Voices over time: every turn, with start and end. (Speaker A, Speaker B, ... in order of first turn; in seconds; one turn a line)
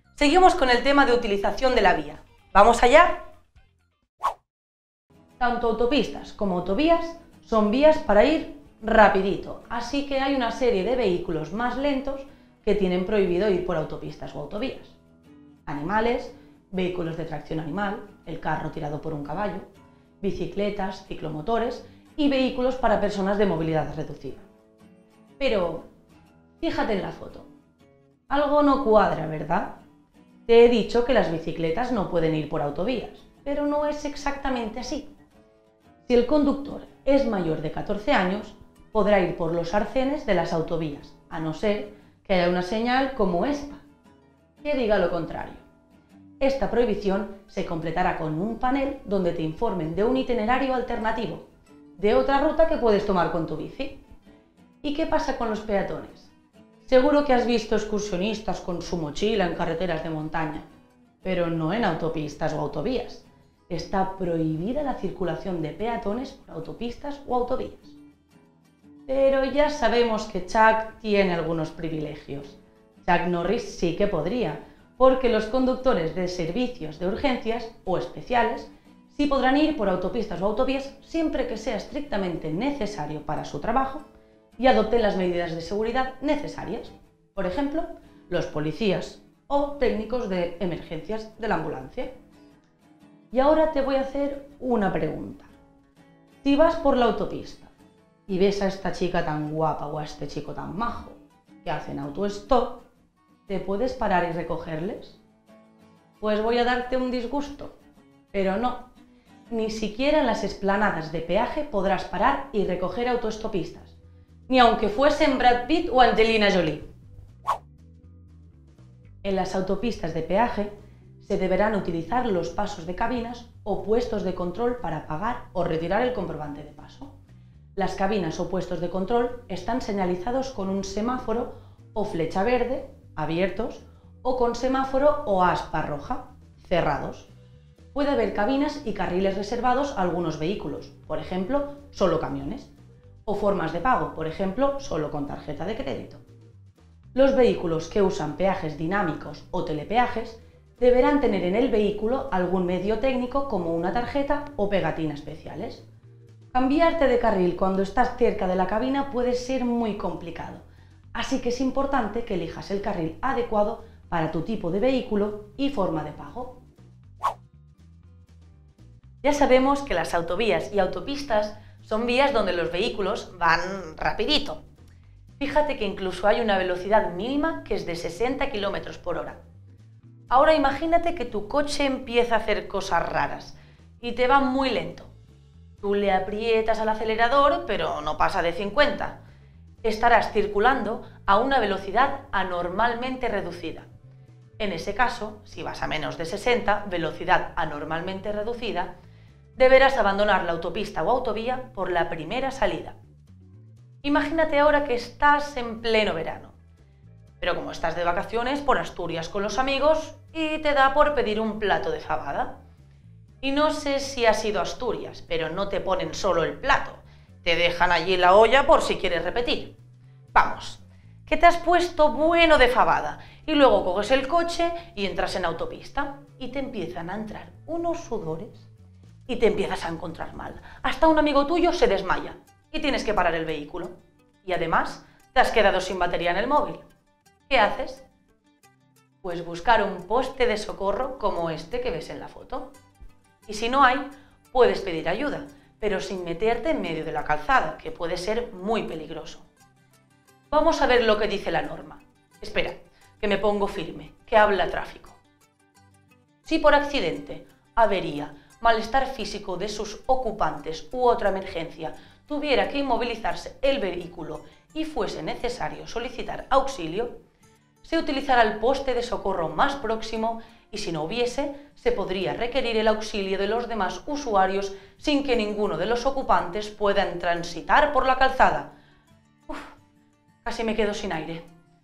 Speaker A: 0.1-3.3
Speaker A: 5.4-14.9
Speaker A: 15.7-19.7
Speaker A: 20.2-24.5
Speaker A: 25.4-25.9
Speaker A: 26.6-27.5
Speaker A: 28.3-29.8
Speaker A: 30.5-35.1
Speaker A: 36.0-43.8
Speaker A: 44.6-45.6
Speaker A: 46.4-54.0
Speaker A: 54.8-56.3
Speaker A: 56.8-60.7
Speaker A: 61.2-68.0
Speaker A: 69.1-84.0
Speaker A: 84.6-92.2
Speaker A: 93.3-95.5
Speaker A: 96.4-97.7
Speaker A: 98.3-102.9
Speaker A: 103.5-105.2
Speaker A: 106.2-107.8
Speaker A: 108.3-108.9
Speaker A: 109.5-114.0
Speaker A: 114.5-116.9
Speaker A: 119.2-127.1
Speaker A: 127.8-137.3
Speaker A: 137.9-142.7
Speaker A: 143.3-146.2
Speaker A: 147.2-155.8
Speaker A: 156.5-166.6
Speaker A: 169.2-174.6
Speaker A: 175.4-179.4
Speaker A: 180.3-185.1
Speaker A: 185.8-189.2
Speaker A: 189.8-193.9
Speaker A: 194.6-198.9
Speaker A: 199.6-203.0
Speaker A: 204.0-206.6
Speaker A: 207.4-212.5
Speaker A: 213.4-219.8
Speaker A: 220.3-228.7
Speaker A: 229.3-236.8
Speaker A: 237.5-238.1
Speaker A: 239.2-242.8
Speaker A: 243.5-249.5
Speaker A: 250.5-255.2
Speaker A: 256.4-267.2
Speaker A: 267.8-278.7
Speaker A: 279.5-279.7
Speaker A: 280.4-281.4